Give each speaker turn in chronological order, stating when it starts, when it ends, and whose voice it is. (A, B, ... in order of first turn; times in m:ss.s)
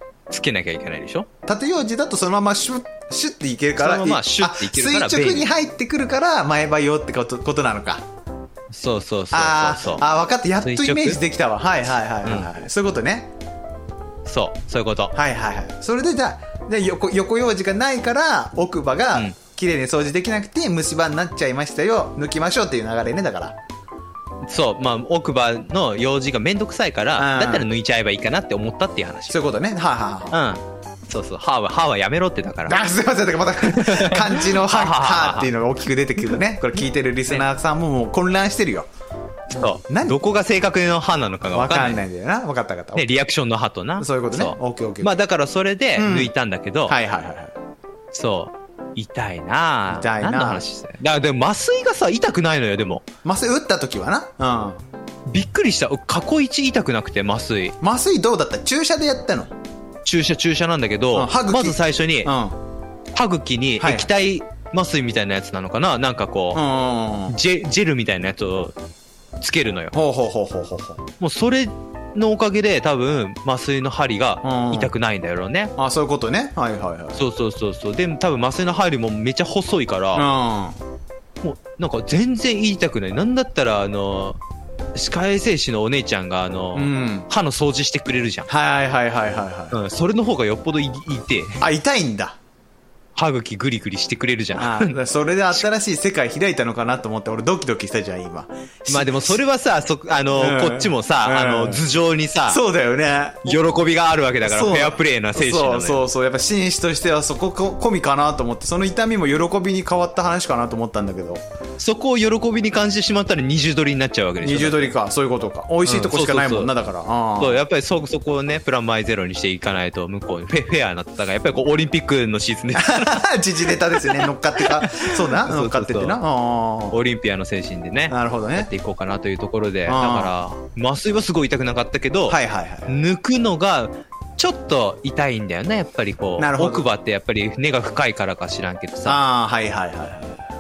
0:00.3-0:01.3 A
0:01.5-0:08.0 B
0:03.8-0:05.5 A
0:08.7-0:10.0 A
0:09.3-0:13.3 B
0:10.6-0:11.2 A
0:14.3-0:15.1 A
0:15.1-0:23.6 B
0:24.5-0:29.4 A
0:27.2-0:27.7 B
0:29.3-0:30.4 B
0:30.3-0:32.8 A
0:32.7-0:38.9 B
0:33.6-0:35.5 A
0:39.5-0:42.0 A
0:39.5-0:40.2 B
0:41.5-0:43.1 B
0:43.0-0:47.0 A
0:44.0-0:45.1 B
0:46.0-0:46.3 B
0:46.9-0:47.5 B
0:48.1-0:53.1 A
0:49.9-0:50.6 B
0:53.2-0:54.8 B
0:55.3-0:57.8 A
0:57.8-0:59.5 B
1:00.0-1:02.3 A
1:01.1-1:02.6 B
1:03.1-1:06.6 A
1:03.8-1:04.1 B
1:06.5-1:07.4 B
1:07.3-1:08.8 A
1:09.4-1:09.9 A
1:09.9-1:11.0 B
1:11.2-1:15.7 A
1:14.4-1:14.9 B
1:15.8-1:17.2 B
1:17.2-1:20.3 A
1:20.1-1:20.8 B
1:21.4-1:24.4 A
1:24.9-1:28.5 A
1:26.8-1:27.3 B
1:28.5-1:29.8 B
1:29.7-1:31.6 A
1:31.6-1:32.4 B
1:33.2-1:35.0 A
1:34.6-1:39.4 B
1:38.9-1:42.6 A
1:40.4-1:41.8 B
1:42.5-1:43.6 B
1:43.4-1:46.0 A
1:44.4-1:51.4 B
1:51.8-1:54.9 A
1:54.4-1:57.6 B
1:55.8-1:56.7 A
1:57.4-2:03.2 A
2:02.8-2:07.0 B
2:03.9-2:06.2 A
2:06.9-2:19.2 A
2:08.1-2:08.7 B
2:09.9-2:10.3 B
2:12.3-2:12.9 B
2:16.4-2:16.9 B
2:19.1-2:20.4 B